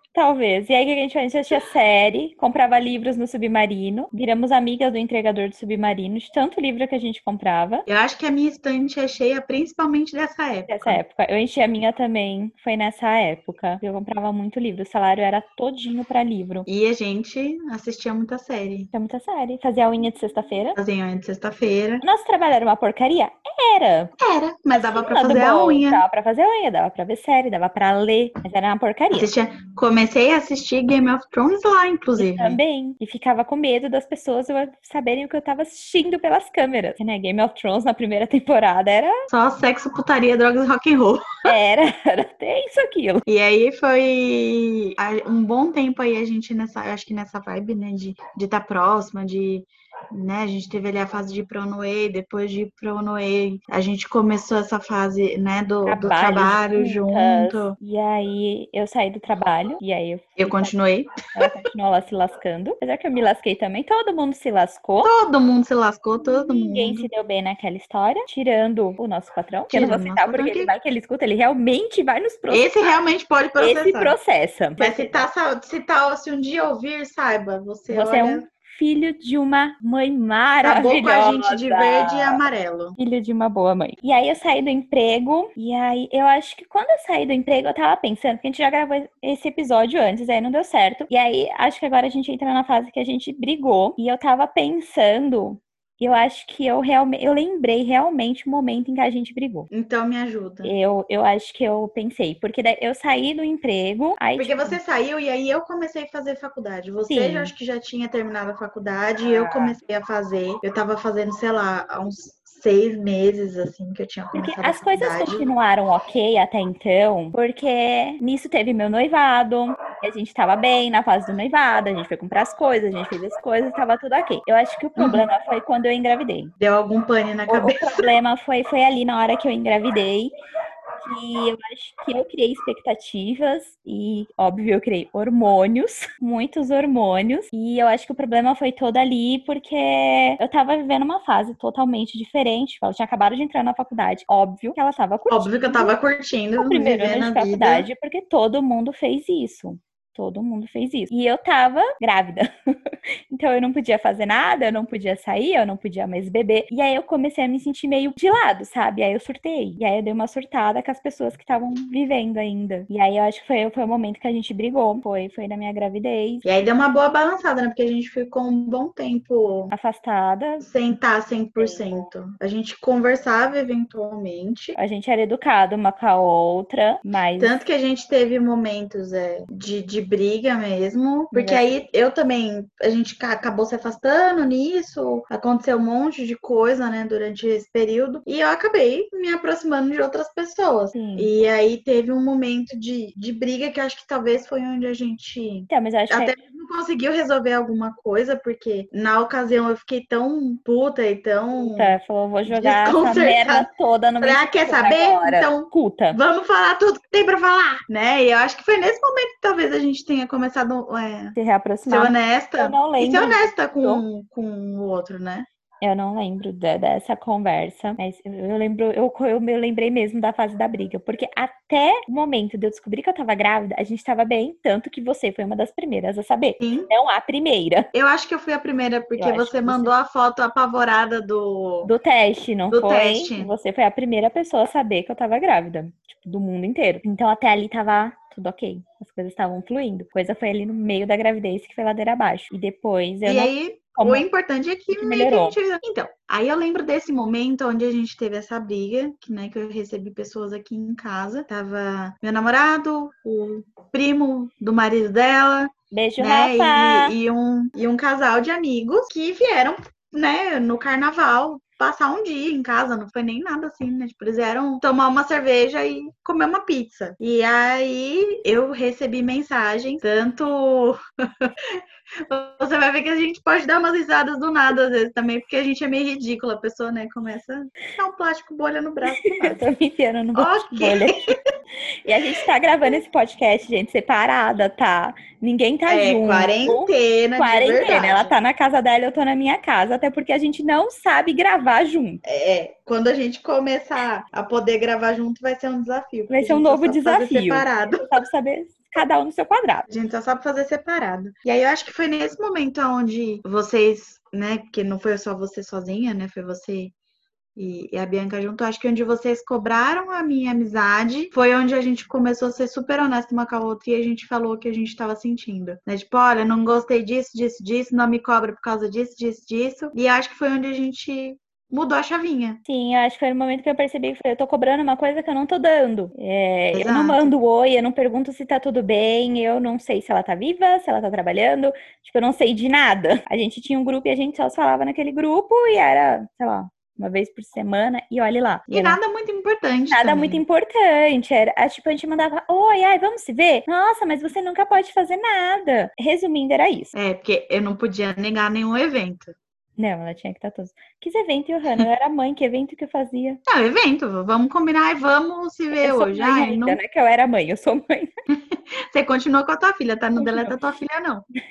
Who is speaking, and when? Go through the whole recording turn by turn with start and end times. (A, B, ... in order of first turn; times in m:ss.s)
0:00.1-0:07.9 A
0:07.9-0:11.0 B
0:10.7-0:16.7 A
0:16.7-0:18.9 B
0:18.9-0:20.8 A
0:20.8-0:22.0 B
0:22.0-0:24.1 A
0:24.2-0:26.0 B
0:24.7-0:29.3 A
0:29.1-0:32.6 B
0:32.2-0:39.2 A
0:39.3-0:41.2 B
0:41.4-0:43.2 A
0:43.3-0:57.8 B
0:55.9-1:00.8 A
1:00.4-1:01.1 B
1:01.3-1:05.1 A
1:05.0-1:07.1 B
1:06.2-1:12.7 A
1:09.7-1:10.7 B
1:12.5-1:14.2 B
1:13.6-1:15.3 A
1:14.8-1:18.4 B
1:17.9-1:22.4 A
1:20.6-1:23.0 B
1:23.0-1:39.7 A
1:39.7-1:40.8 B
1:40.6-1:44.8 A
1:44.4-1:55.5 B
1:47.1-1:47.5 A
1:49.2-1:49.8 A
1:54.4-2:06.5 A
2:05.0-2:05.3 B
2:06.6-2:08.1 B
2:07.5-2:10.3 A
2:11.0-2:25.9 A
2:25.3-2:27.9 B
2:26.6-2:46.4 A
2:46.4-2:49.7 B
2:49.7-2:50.6 A
2:50.6-2:54.8 B
2:51.6-2:52.1 A
2:54.8-2:57.6 A
2:57.4-3:22.0 B
3:01.3-3:01.7 A
3:10.9-3:11.3 A
3:15.7-3:16.4 A
3:21.8-3:26.2 A
3:22.5-3:23.7 B
3:24.2-3:31.4 B
3:31.4-3:34.0 A
3:31.9-3:35.5 B
3:35.8-3:47.9 A
3:46.6-3:46.9 B
3:47.9-3:51.9 B
3:49.2-3:49.9 A
3:51.8-4:04.2 A
3:52.7-3:53.5 B
4:03.2-4:39.6 B
4:04.9-4:05.6 A
4:15.9-4:17.1 A
4:39.0-4:41.3 A
4:40.4-4:41.3 B
4:42.0-4:52.2 A
4:45.9-4:48.3 B
4:52.2-4:58.1 B
4:56.3-4:59.9 A
4:59.9-5:06.9 B
5:07.6-5:22.6 B
5:22.7-5:39.0 A
5:26.7-5:27.3 B
5:38.7-5:40.4 B
5:39.9-5:46.9 A
5:46.9-5:49.4 B
5:49.8-5:53.4 A
5:53.5-5:56.8 B
5:55.8-5:58.1 A
5:58.4-6:01.3 B
6:00.2-6:00.6 A